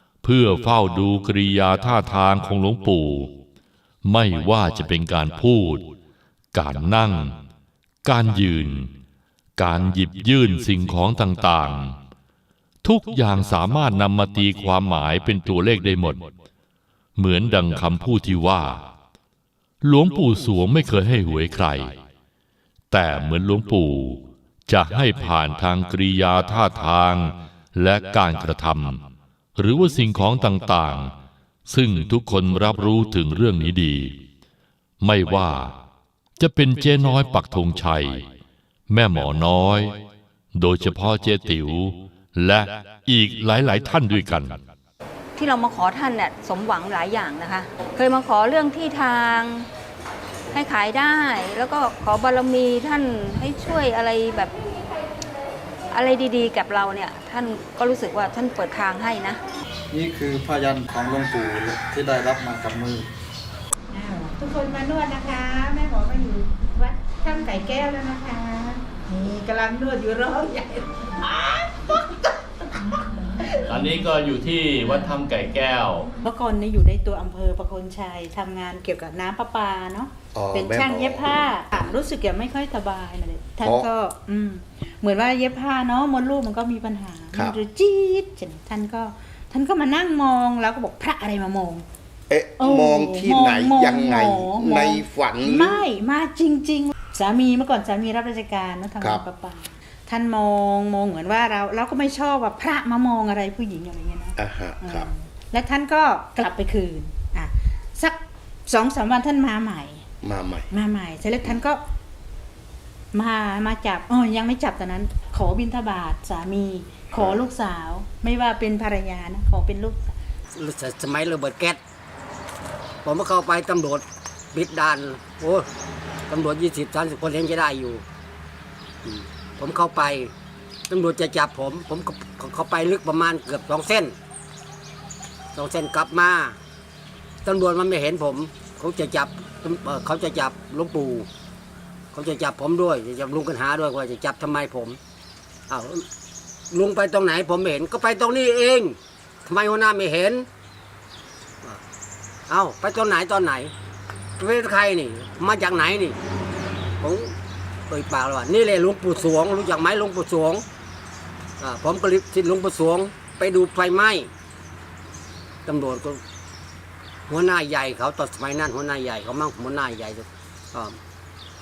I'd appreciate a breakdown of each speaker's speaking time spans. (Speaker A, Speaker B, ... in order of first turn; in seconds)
Speaker A: 0.2-3.3, 4.0-5.9, 6.5-7.4, 8.0-8.9, 9.6-12.0, 12.8-16.3, 17.2-18.8, 19.8-21.9, 22.9-29.0, 29.6-31.1, 31.7-34.2, 35.0-35.7, 36.4-38.2, 38.9-40.0, 40.5-44.6, 73.6-76.1
Speaker B: 45.4-49.7, 50.5-54.5, 55.9-59.4
Speaker C: 59.9-62.9
Speaker D: 63.9-72.0, 72.8-73.5, 76.2-91.8, 92.6-110.0, 110.7-111.8, 113.1-120.1
Speaker E: 80.3-81.9, 83.6-83.9, 92.3-95.8, 104.4-105.1, 110.2-110.7
Speaker F: 120.5-121.8, 123.0-125.7, 126.3-128.0, 129.0-130.3, 130.9-134.1, 135.5-136.6, 137.4-141.3, 142.1-145.0, 145.7-146.0, 146.7-150.5, 152.5-153.7, 154.4-156.2, 157.0-157.3, 157.9-160.6, 161.6-164.3, 165.7-166.2, 167.3-171.0